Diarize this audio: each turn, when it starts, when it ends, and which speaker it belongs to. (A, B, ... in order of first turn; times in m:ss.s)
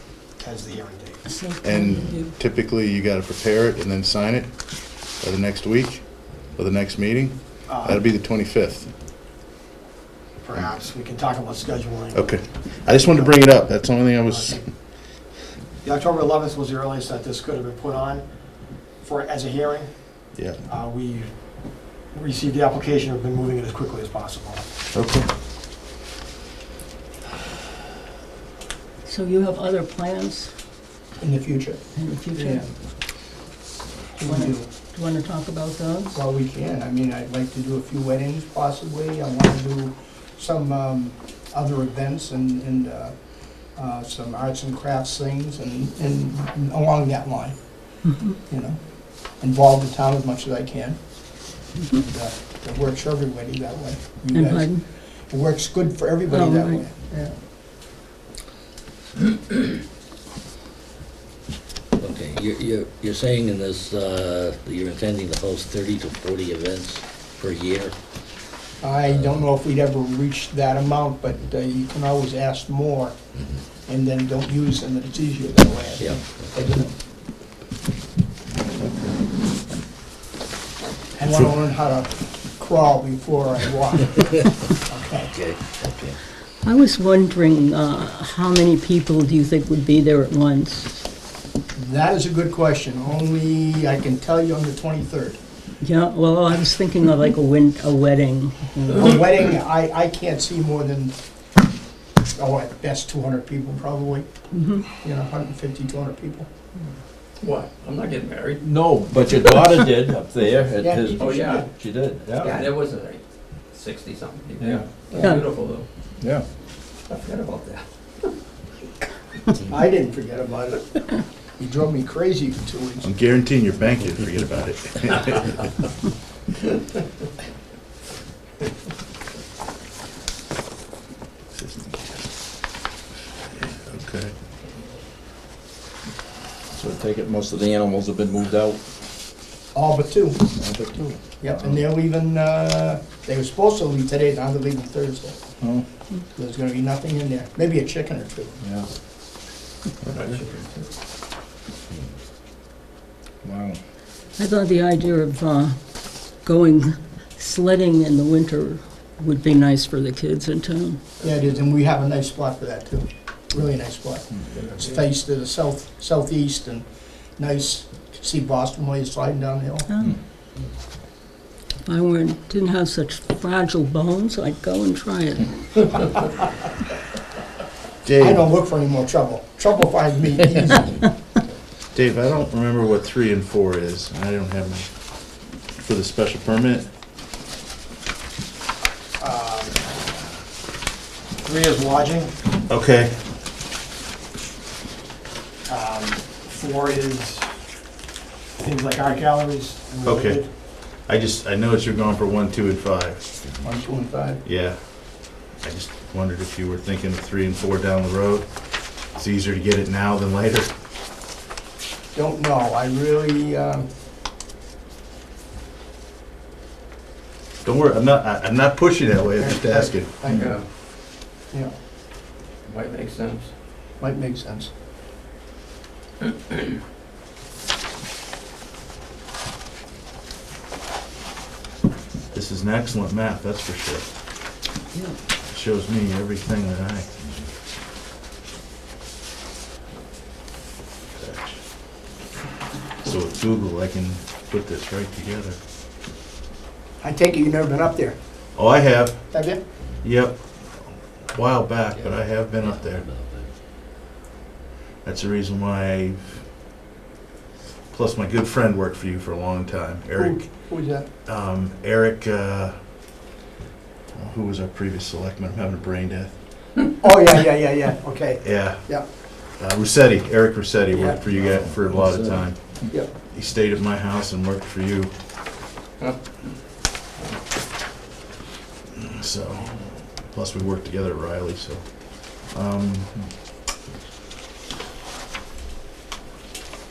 0:00.4-0:01.2 A
0:01.3-0:02.3 B
0:01.6-0:08.9 C
0:07.7-0:08.0 A
0:10.4-0:12.3 A
0:12.1-0:14.6 C
0:14.3-0:14.6 A
0:15.8-0:18.2 A
0:19.0-0:19.9 A
0:20.4-0:20.6 C
0:20.7-0:21.3 A
0:22.1-0:24.6 A
0:24.9-0:25.3 C
0:29.0-0:30.5 B
0:31.2-0:31.8 D
0:32.0-0:32.6 B
0:32.3-0:32.7 D
0:34.2-0:34.7 D
0:34.2-0:36.2 B
0:36.1-0:43.1 D
0:43.7-0:47.6 D
0:48.0-0:48.4 B
0:48.5-0:48.8 D
0:49.4-0:51.0 D
0:51.9-0:54.8 D
0:54.3-0:54.8 B
0:55.3-0:57.3 D
0:56.3-0:56.8 B
1:02.0-1:07.9 E
1:08.8-1:13.2 D
1:13.9-1:16.9 D
1:16.0-1:16.6 E
1:21.2-1:25.3 D
1:25.3-1:26.2 E
1:26.6-1:31.0 B
1:31.7-1:35.4 D
1:35.8-1:39.0 B
1:38.9-1:41.1 D
1:42.3-1:44.3 D
1:44.5-1:44.9 B
1:44.9-1:46.5 D
1:47.4-1:48.6 F
1:48.6-1:52.7 G
1:50.8-1:51.6 D
1:51.2-1:51.7 F
1:52.4-1:53.2 F
1:53.7-1:55.8 F
1:54.6-1:55.0 G
1:55.1-1:55.4 D
1:56.2-1:56.4 G
1:57.1-1:57.8 F
1:59.7-2:03.1 D
2:03.0-2:05.7 C
2:11.5-2:12.2 C
2:13.6-2:14.3 C
2:16.7-2:18.8 G
2:19.7-2:20.4 D
2:20.5-2:21.8 G
2:21.4-2:25.4 D
2:25.6-2:25.8 G
2:26.3-2:28.6 D
2:28.6-2:28.9 G
2:30.0-2:30.4 G
2:30.1-2:30.9 F
2:33.4-2:33.8 G
2:34.4-2:35.8 B
2:36.3-2:41.0 B
2:41.2-2:46.8 D
2:44.3-2:44.6 G
2:47.4-2:49.9 D
2:51.8-2:55.9 B
2:58.0-2:58.4 C
2:58.2-3:01.1 D
3:01.9-3:06.9 C
3:09.2-3:10.0 A
3:11.4-3:12.3 A
3:12.7-3:13.2 C
3:15.7-3:17.5 A
3:18.6-3:20.5 A
3:20.0-3:23.3 C
3:23.6-3:24.4 D
3:24.4-3:30.7 C
3:32.1-3:33.8 D
3:37.6-3:40.3 C
3:39.4-3:40.5 D
3:40.4-3:40.6 F
3:42.7-3:43.5 F
3:44.0-3:44.7 D
3:52.3-3:54.1 C
3:55.5-3:57.3 C
4:01.1-4:01.6 C
4:03.0-4:05.6 C
4:07.0-4:08.2 D
4:08.5-4:09.4 C
4:09.3-4:09.6 D
4:10.0-4:13.0 C
4:12.0-4:13.5 E
4:15.0-4:16.5 C
4:17.9-4:20.5 C
4:20.2-4:21.1 D
4:21.2-4:22.8 C
4:24.1-4:26.4 C
4:27.0-4:29.0 D
4:28.4-4:35.1 C
4:30.9-4:31.2 D
4:31.2-4:32.8 G
4:39.0-4:43.1 C